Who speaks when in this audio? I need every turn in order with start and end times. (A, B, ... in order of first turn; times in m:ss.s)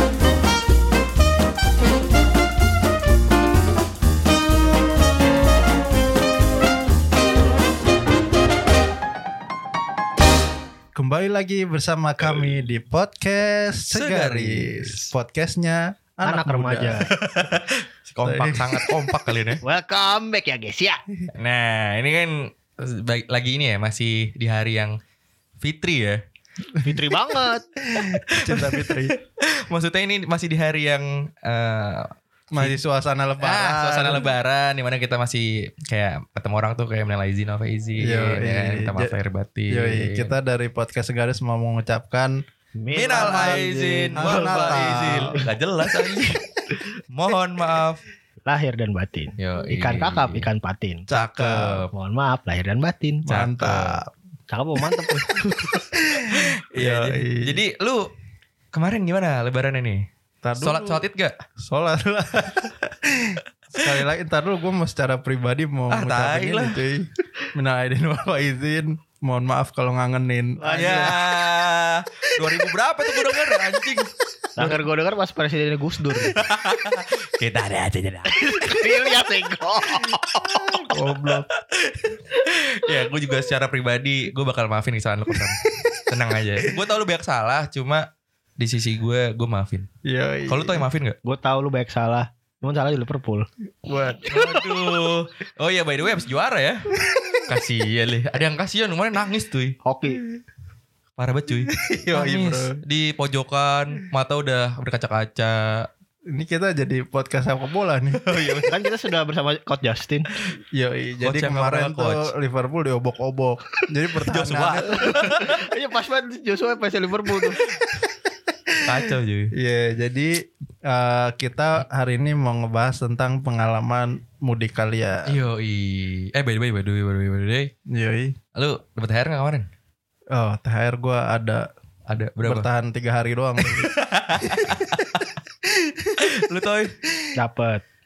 0:10.9-0:17.1 A
0:13.9-0:15.1 B
0:16.2-0:17.1 C
0:17.1-0:19.6 B
0:18.2-0:19.1 A
0:19.6-0:21.0 C
0:21.3-0:25.0 B
0:25.6-0:26.2 B
0:26.8-0:27.6 C
0:27.8-0:29.2 A
0:28.0-0:32.8 B
0:32.5-0:34.3 A
0:33.4-0:40.3 B
0:38.0-0:39.1 A
0:39.7-0:42.4 A
0:42.8-0:45.4 C
0:42.9-0:46.4 B
0:43.1-0:45.4 A
0:47.1-0:48.0 B
0:48.5-0:51.0 C
0:49.4-0:50.5 B
0:51.1-0:51.8 A
0:51.1-0:51.9 B
0:51.9-0:53.2 C
0:53.3-0:54.0 B
0:53.3-0:54.1 A
0:54.5-0:55.9 C
0:56.0-0:57.6 A
0:56.2-0:58.0 B
0:58.7-1:00.0 B
1:00.4-1:01.0 A
1:00.6-1:01.3 B
1:01.6-1:10.8 A
1:05.9-1:06.8 B
1:10.6-1:11.2 C
1:10.6-1:14.1 B
1:14.6-1:16.3 C
1:16.3-1:18.8 B
1:18.3-1:20.9 C
1:20.7-1:21.4 A
1:21.7-1:28.0 B
1:28.6-1:29.9 B
1:30.0-1:30.9 A
1:30.5-1:31.2 B
1:31.2-1:33.5 C
1:33.8-1:34.6 A
1:34.3-1:36.9 B
1:37.0-1:37.4 A
1:37.4-1:39.7 B
1:39.8-1:40.2 C
1:41.2-1:45.9 B
1:41.7-1:42.7 A
1:46.3-1:48.2 A
1:48.2-1:48.7 B
1:48.7-1:50.3 C
1:50.7-1:55.4 A
1:51.2-1:52.3 B
1:54.2-1:55.6 B
1:55.0-1:57.6 C
1:57.6-1:57.8 B
1:58.8-1:59.5 B
1:59.6-2:05.3 A
2:05.3-2:07.7 B
2:07.9-2:08.4 A
2:08.5-2:09.7 B
2:10.3-2:11.6 A
2:12.1-2:12.7 B
2:12.4-2:15.0 A
2:13.6-2:15.3 B
2:15.7-2:16.2 A
2:16.2-2:17.0 B
2:17.3-2:17.8 C